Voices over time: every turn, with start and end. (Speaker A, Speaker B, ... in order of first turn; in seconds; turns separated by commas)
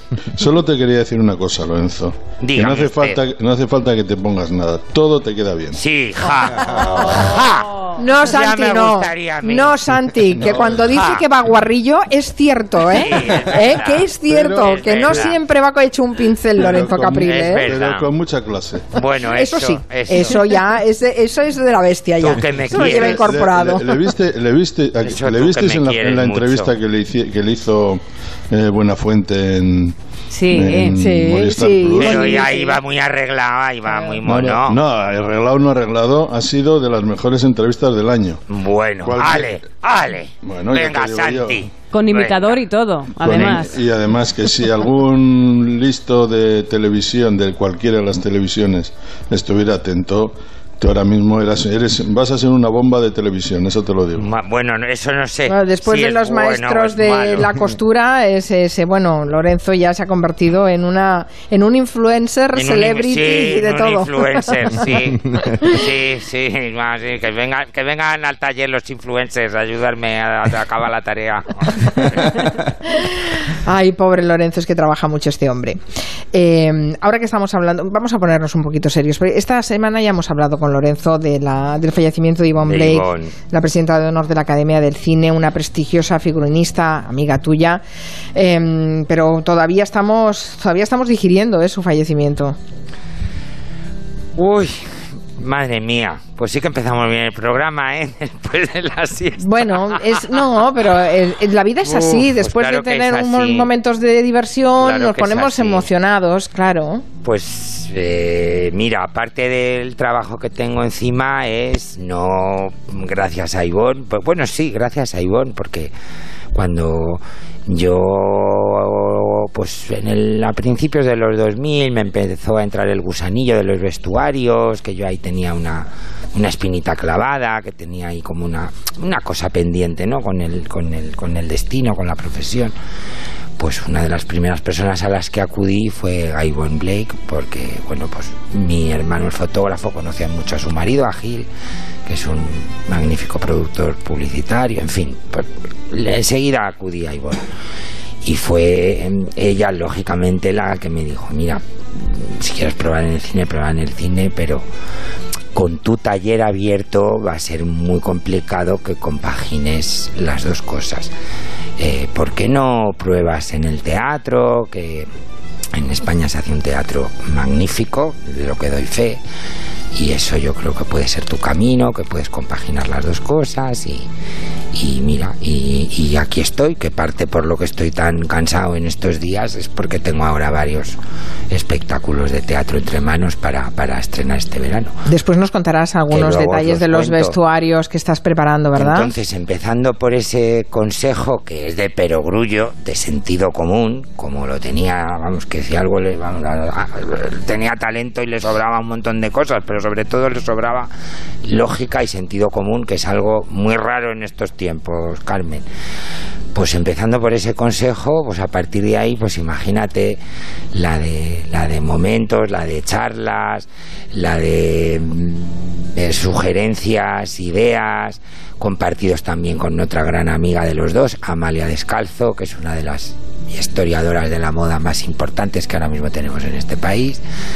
Speaker A: 0.3-5.8, Speaker B: 2.4-3.2, Speaker B: 5.7-9.8, Speaker C: 8.0-17.7, Speaker A: 10.3-10.9, Speaker B: 10.8-11.2, Speaker B: 12.9-15.4, Speaker A: 14.3-15.3, Speaker A: 16.6-18.9, Speaker B: 17.1-18.1, Speaker B: 18.9-20.5, Speaker C: 19.3-24.0, Speaker B: 22.2-23.4, Speaker A: 22.6-30.0, Speaker B: 25.0-26.8, Speaker D: 30.3-31.0, Speaker A: 30.5-32.5, Speaker C: 31.0-32.8, Speaker B: 31.9-34.8, Speaker A: 34.2-38.4, Speaker B: 38.5-42.6, Speaker A: 39.0-39.6, Speaker A: 40.4-41.7, Speaker D: 41.9-43.8, Speaker A: 43.2-54.3, Speaker B: 43.3-43.6, Speaker B: 54.1-57.7, Speaker C: 55.5-64.9, Speaker B: 62.5-72.4, Speaker C: 73.0-75.8, Speaker C: 76.3-87.8, Speaker B: 82.7-83.3, Speaker C: 88.3-92.6, Speaker B: 94.4-100.5, Speaker C: 99.4-107.0, Speaker B: 101.8-103.7, Speaker B: 104.8-105.9, Speaker B: 107.2-115.9, Speaker B: 116.5-132.8, Speaker B: 133.6-141.5, Speaker B: 142.1-147.5, Speaker B: 148.2-154.7, Speaker B: 155.5-161.1, Speaker B: 161.8-165.1, Speaker B: 165.7-169.2, Speaker B: 169.9-174.1, Speaker B: 174.7-181.0, Speaker B: 181.5-184.9, Speaker C: 185.1-189.1, Speaker B: 186.1-187.4, Speaker B: 188.8-200.9, Speaker B: 201.4-205.6, Speaker B: 206.5-210.2, Speaker B: 210.7-227.2